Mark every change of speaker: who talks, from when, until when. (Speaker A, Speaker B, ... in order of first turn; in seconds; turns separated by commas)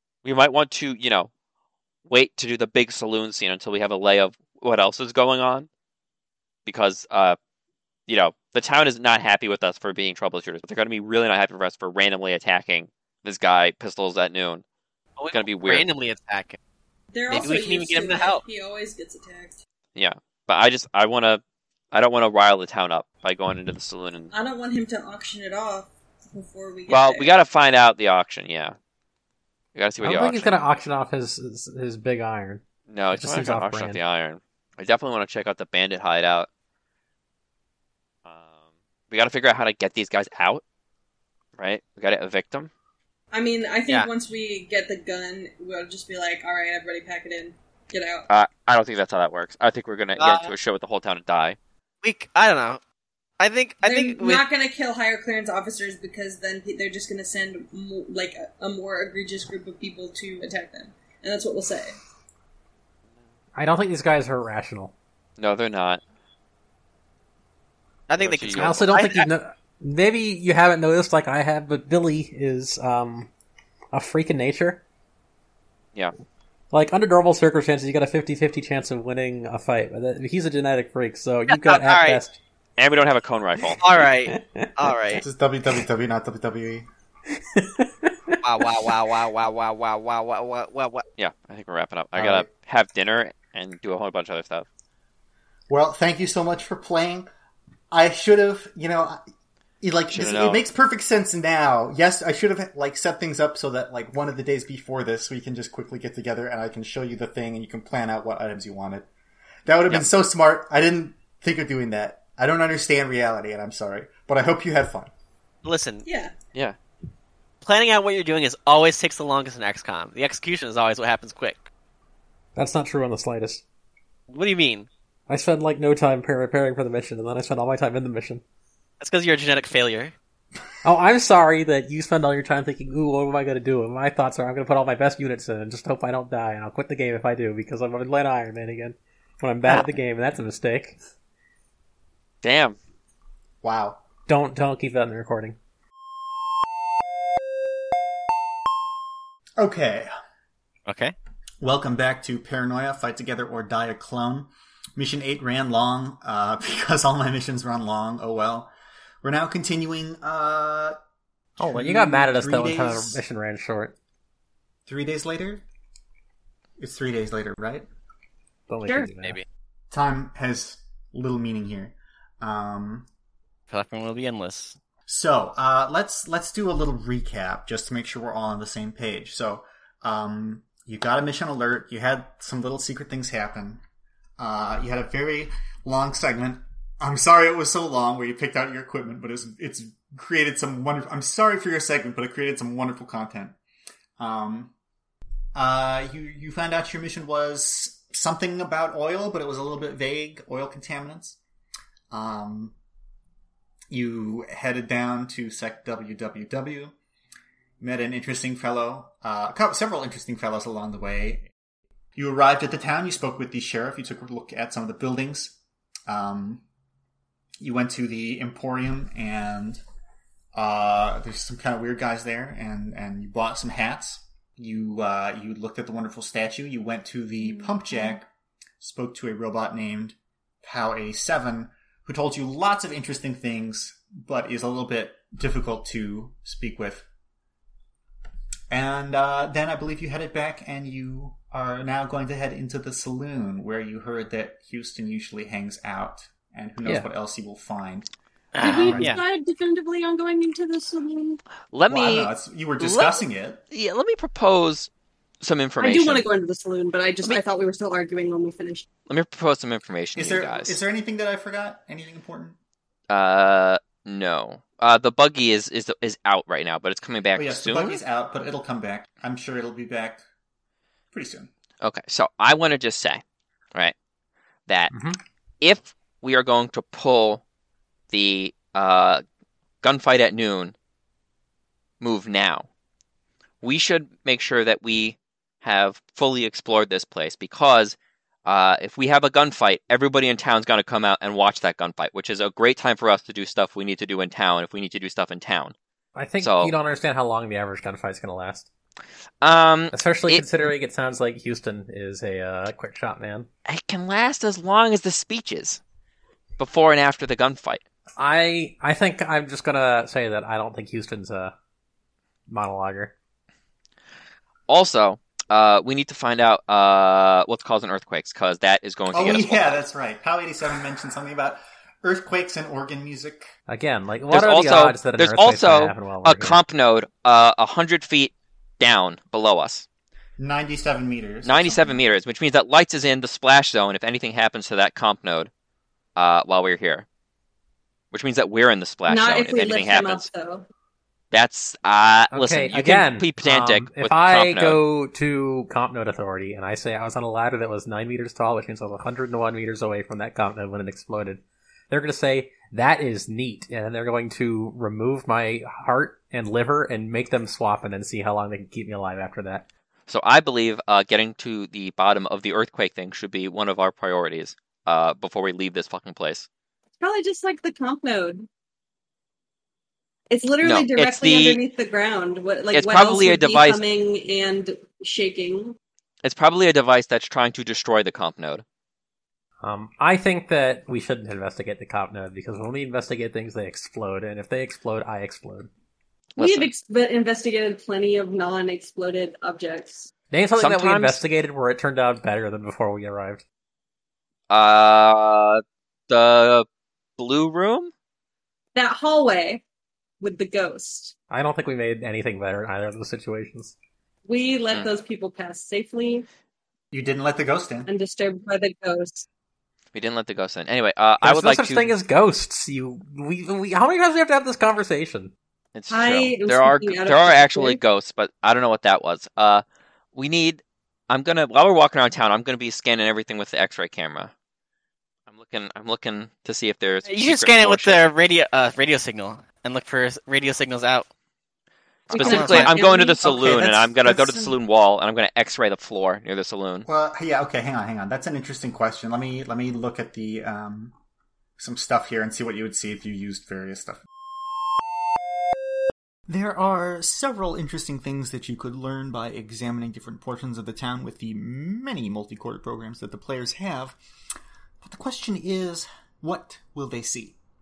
Speaker A: 0.2-1.3, Speaker A: 2.0-5.7, Speaker A: 6.7-7.4, Speaker A: 8.1-14.6, Speaker B: 15.2-16.6, Speaker A: 15.3-15.9, Speaker C: 17.1-19.6, Speaker B: 17.3-18.4, Speaker A: 19.9-21.4, Speaker A: 21.9-24.3, Speaker C: 24.3-27.3, Speaker A: 26.9-28.8, Speaker A: 29.7-30.6, Speaker D: 30.0-34.0, Speaker A: 32.9-36.5, Speaker A: 38.2-38.5, Speaker A: 39.1-40.6, Speaker A: 41.6-42.7, Speaker C: 43.3-48.2, Speaker A: 48.3-51.6, Speaker B: 50.2-50.5, Speaker B: 52.0-52.8, Speaker B: 53.4-54.5, Speaker C: 53.8-62.0, Speaker D: 63.5-64.9, Speaker A: 65.4-66.0, Speaker B: 68.1-69.2, Speaker A: 68.2-68.9, Speaker D: 68.5-73.3, Speaker D: 73.9-74.8, Speaker D: 76.7-82.4, Speaker B: 81.5-82.2, Speaker A: 82.8-83.8, Speaker B: 83.8-85.2, Speaker D: 84.3-84.7, Speaker E: 85.1-86.8, Speaker D: 87.3-88.9, Speaker B: 88.4-91.0, Speaker A: 91.2-94.7, Speaker E: 92.2-92.5, Speaker E: 95.7-97.3, Speaker E: 97.9-99.2, Speaker E: 99.8-109.1, Speaker A: 100.1-100.6, Speaker E: 109.7-115.1, Speaker B: 115.6-116.0, Speaker C: 116.0-116.3, Speaker B: 117.6-121.7, Speaker D: 122.5-123.6, Speaker B: 124.3-124.9, Speaker D: 125.3-128.4, Speaker B: 129.0-130.1, Speaker D: 130.8-141.0, Speaker A: 142.4-142.8, Speaker E: 143.6-144.0, Speaker D: 144.3-145.6, Speaker E: 149.6-150.1, Speaker B: 150.9-151.1, Speaker E: 151.6-158.7, Speaker E: 159.2-161.0, Speaker E: 161.6-163.2, Speaker D: 161.6-163.9, Speaker E: 164.8-165.6, Speaker E: 166.8-167.8, Speaker D: 168.7-169.4, Speaker E: 169.9-173.1, Speaker B: 173.7-174.8, Speaker E: 175.1-183.8, Speaker E: 184.4-193.6, Speaker E: 194.2-194.7, Speaker E: 195.5-201.4, Speaker E: 202.1-202.7, Speaker E: 203.9-206.9, Speaker E: 207.8-211.5, Speaker E: 212.1-215.6, Speaker E: 216.1-216.6, Speaker E: 217.6-219.8, Speaker E: 220.5-228.3, Speaker E: 228.8-237.1, Speaker E: 238.7-248.1, Speaker B: 248.5-249.2, Speaker E: 248.6-249.2, Speaker F: 248.6-251.4, Speaker A: 251.7-253.2, Speaker E: 251.9-253.6, Speaker A: 253.7-254.9, Speaker A: 255.4-256.3, Speaker F: 255.8-258.9, Speaker A: 259.1-260.8, Speaker E: 260.1-262.6, Speaker A: 263.1-268.0, Speaker E: 267.3-270.2, Speaker E: 271.1-271.5, Speaker A: 271.8-273.2, Speaker A: 274.7-274.9, Speaker D: 274.9-275.2, Speaker A: 275.6-277.4, Speaker A: 278.1-279.2, Speaker A: 279.8-280.7, Speaker A: 282.0-282.7, Speaker A: 283.6-295.7, Speaker D: 296.1-298.7, Speaker A: 296.4-296.7, Speaker A: 299.4-300.5, Speaker D: 299.9-303.5, Speaker A: 303.6-305.8, Speaker A: 306.6-307.8, Speaker D: 308.2-311.5, Speaker D: 312.5-313.1, Speaker A: 314.7-319.9, Speaker E: 319.1-323.5, Speaker D: 323.7-326.6, Speaker A: 324.3-329.9, Speaker E: 330.4-332.0, Speaker A: 331.4-335.5, Speaker A: 336.1-337.1, Speaker A: 338.1-340.3, Speaker F: 339.1-340.6, Speaker A: 341.3-344.8, Speaker D: 342.3-359.6, Speaker A: 360.1-366.5, Speaker F: 367.0-368.5, Speaker F: 370.3-375.8, Speaker A: 370.6-371.6, Speaker A: 372.7-373.8, Speaker A: 376.2-378.6, Speaker D: 379.6-385.7, Speaker A: 386.4-386.7, Speaker F: 386.4-390.1, Speaker D: 390.3-393.4, Speaker A: 390.6-391.2, Speaker A: 394.5-396.6, Speaker A: 397.2-397.9, Speaker F: 398.7-399.6, Speaker F: 400.2-401.1, Speaker D: 401.3-403.7, Speaker F: 404.3-406.2, Speaker E: 406.9-407.9, Speaker F: 407.9-409.2, Speaker A: 409.9-411.9, Speaker D: 411.2-415.3, Speaker A: 415.7-419.6, Speaker F: 415.9-417.8, Speaker A: 420.1-424.3, Speaker A: 425.3-428.0, Speaker B: 427.1-431.1, Speaker A: 432.1-436.9, Speaker F: 432.1-434.4, Speaker B: 432.1-432.8, Speaker E: 436.9-440.9, Speaker E: 441.6-444.0, Speaker E: 446.3-454.0, Speaker E: 454.8-457.4